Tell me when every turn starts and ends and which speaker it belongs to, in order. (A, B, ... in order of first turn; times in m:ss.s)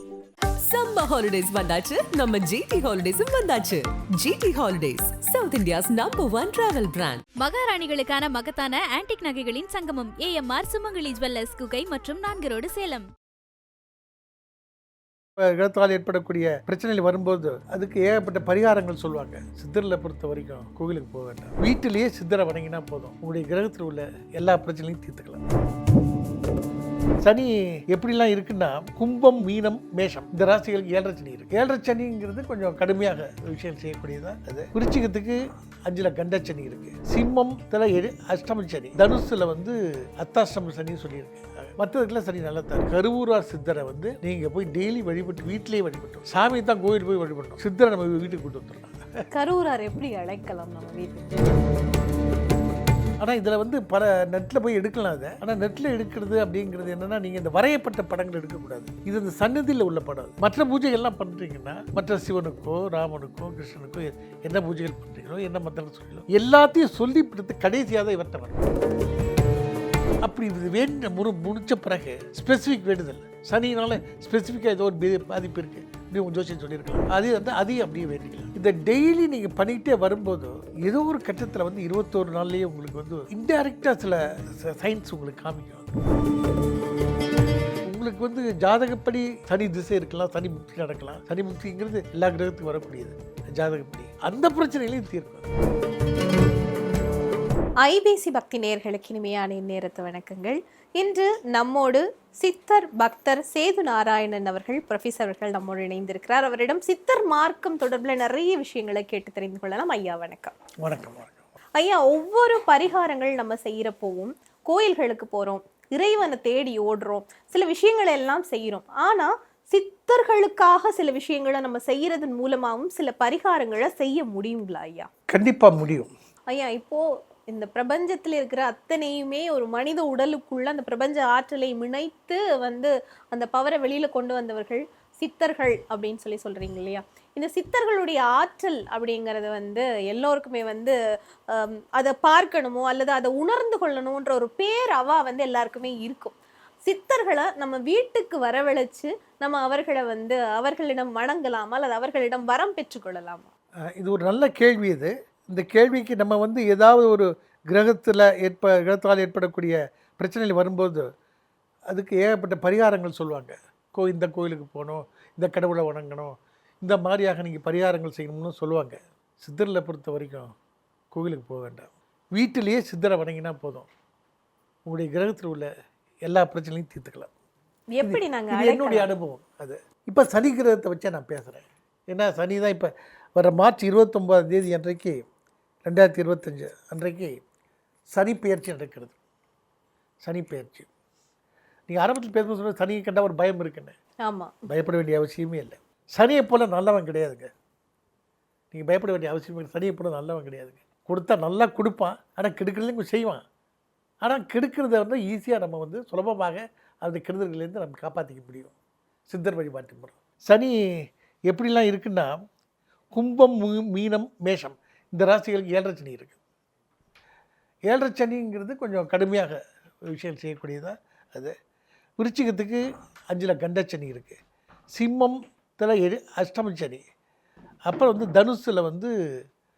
0:00.6-0:07.2 A
0:07.4-0:13.1 B
0:15.4-0:25.4 C
0:27.2-0:49.1 C
0:49.3-0:51.3 D
0:53.2-1:08.7 C
1:10.2-1:26.0 C
1:27.9-1:35.5 C
1:37.8-1:50.6 D
1:50.8-1:51.4 C
1:51.8-2:05.1 D
2:05.3-2:06.1 C
2:06.5-2:21.0 D
2:21.5-2:33.5 D
2:34.0-2:41.1 C
2:41.9-2:50.5 C
2:51.1-2:53.9 C
2:54.9-2:55.7 C
2:56.3-2:57.3 C
2:57.9-2:59.1 D
2:58.0-3:05.2 C
3:05.9-3:07.4 C
3:08.1-3:09.1 C
3:10.2-3:10.9 C
3:11.9-3:14.0 C
3:14.2-3:14.6 D
3:14.7-3:17.5 C
3:18.7-3:23.4 C
3:24.2-3:28.7 C
3:29.3-3:30.8 C
3:31.5-3:32.4 C
3:33.1-3:36.4 C
3:37.9-3:39.6 C
3:40.1-3:41.5 C
3:42.2-3:44.4 C
3:44.9-3:47.0 C
3:47.9-3:49.1 C